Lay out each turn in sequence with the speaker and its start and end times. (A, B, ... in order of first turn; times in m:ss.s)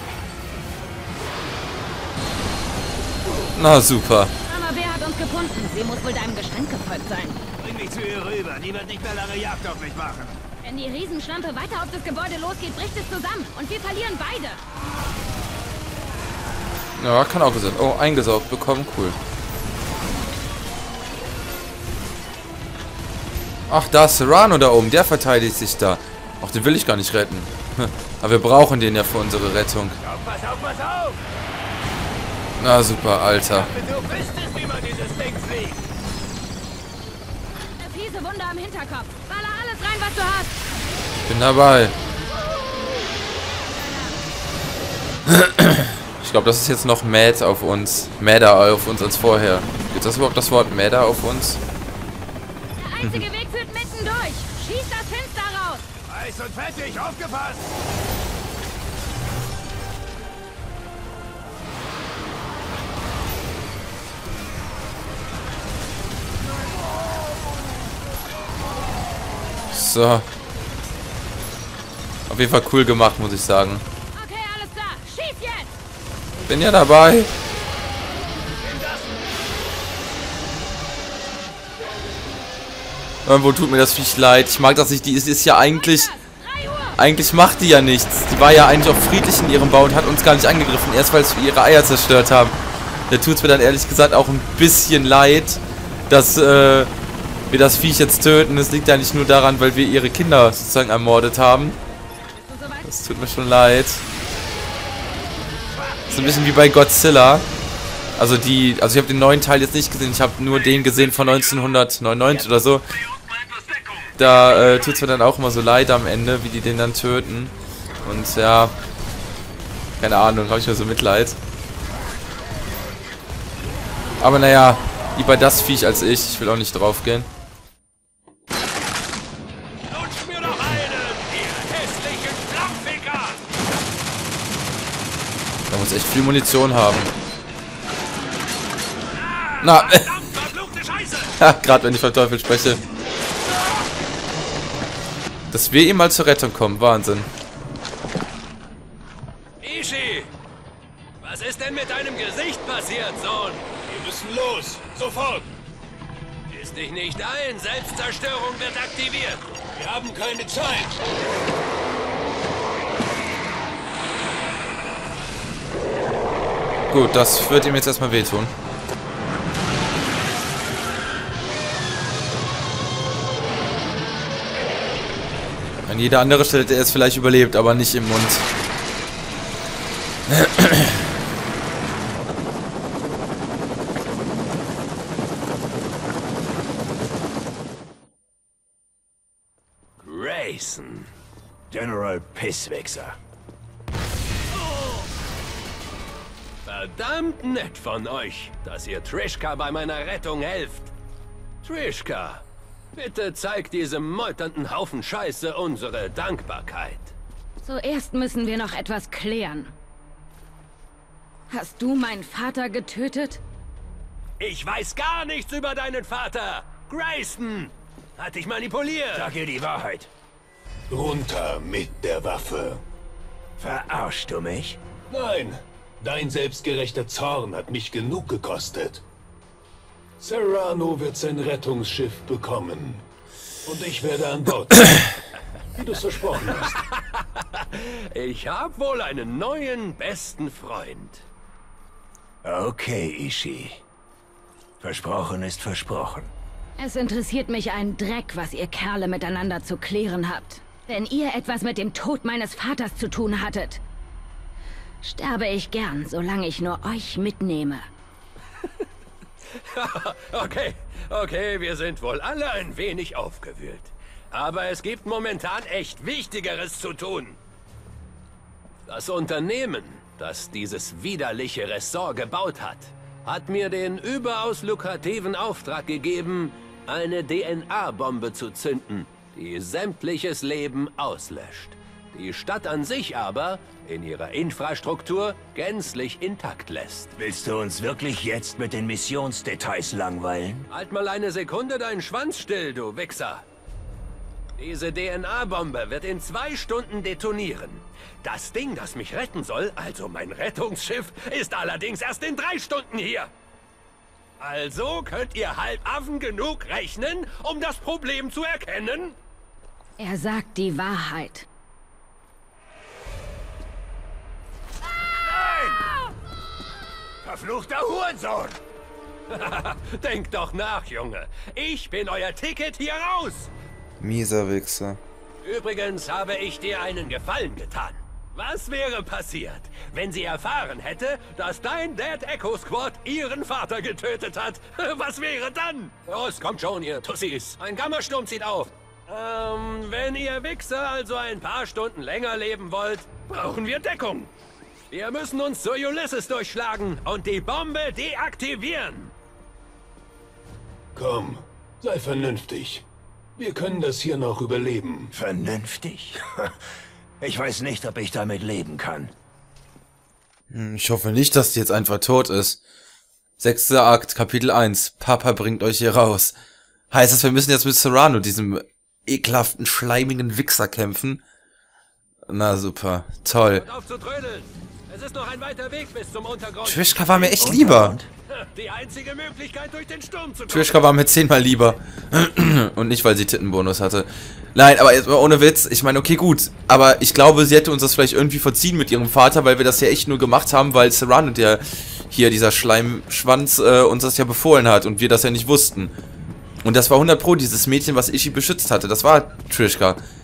0:03.5-0:04.3 A
0:04.4-0:07.4 B
0:07.6-0:10.4 C
0:10.6-0:14.6 B
0:17.0-0:19.2 A
0:23.7-0:30.0 A
0:30.0-0:31.2 C
0:32.6-0:33.7 A
0:33.5-0:35.9 C
0:37.8-0:40.5 B
0:41.2-0:41.9 A
0:43.6-0:44.2 B
0:45.3-0:51.6 A
0:52.8-0:55.8 B
0:56.0-0:57.8 C
1:09.7-1:10.2 A
1:12.3-1:13.8 A
1:14.1-1:15.7 B
1:16.4-1:17.3 A
1:18.6-1:19.2 C
1:23.2-1:26.2 A
1:26.2-1:27.0 B
1:27.0-1:32.6 A
1:33.1-1:36.9 A
1:37.5-1:41.8 A
1:42.3-1:42.9 B
1:42.8-1:44.0 A
1:45.7-1:46.6 C
1:46.1-1:47.4 A
1:48.2-1:52.9 A
1:54.2-1:58.7 A
2:00.0-2:01.4 A
2:04.2-2:07.3 A
2:09.9-2:13.4 D
2:15.7-2:17.1 A
2:19.1-2:21.4 D
2:19.6-2:20.2 A
2:21.4-2:22.8 A
2:25.5-2:27.3 A
2:29.6-2:30.3 D
2:31.2-2:33.7 D
2:33.8-2:35.5 E
2:36.5-2:39.5 D
2:39.7-2:41.0 E
2:46.9-2:48.5 A
2:55.9-2:58.4 A
3:00.3-3:00.9 A
3:10.0-3:11.1 D
3:11.7-3:13.2 C
3:14.7-3:15.0 D
3:16.6-3:20.9 D
3:21.6-3:22.4 D
3:22.9-3:27.1 D
3:27.6-3:29.7 B
3:31.5-3:33.4 B
3:34.4-3:39.3 D
3:39.1-3:40.1 C
3:40.9-3:42.8 E
3:43.6-3:44.8 C
3:45.1-3:49.0 E
3:50.2-3:53.0 E
3:53.6-3:55.1 E
3:55.7-3:56.8 E
3:56.7-4:01.2 D
4:02.4-4:03.8 C
4:04.8-4:06.3 C
4:06.8-4:13.8 B
4:15.0-4:17.8 B
4:19.5-4:27.4 D
4:28.9-4:47.1 D
4:47.2-4:50.7 C
4:50.7-4:53.4 D
4:54.6-5:03.3 D
5:04.4-5:09.2 D
5:10.0-5:11.4 B
5:15.2-5:15.9 C
5:17.2-5:18.6 C
5:19.3-5:23.5 D
5:24.0-5:25.0 A
5:25.4-5:44.3 D
5:44.9-5:49.1 D
5:50.9-5:52.8 E
5:53.4-5:55.1 E
5:55.1-5:56.5 C
5:57.2-5:59.1 C
6:00.5-6:02.6 A
6:03.4-6:06.3 A
6:06.9-6:11.2 A
6:12.3-6:13.6 A
6:13.5-6:17.3 D
6:16.6-6:18.0 A
6:17.1-6:18.1 C
6:18.3-6:20.9 D
6:20.5-6:35.9 A
6:36.6-6:40.0 A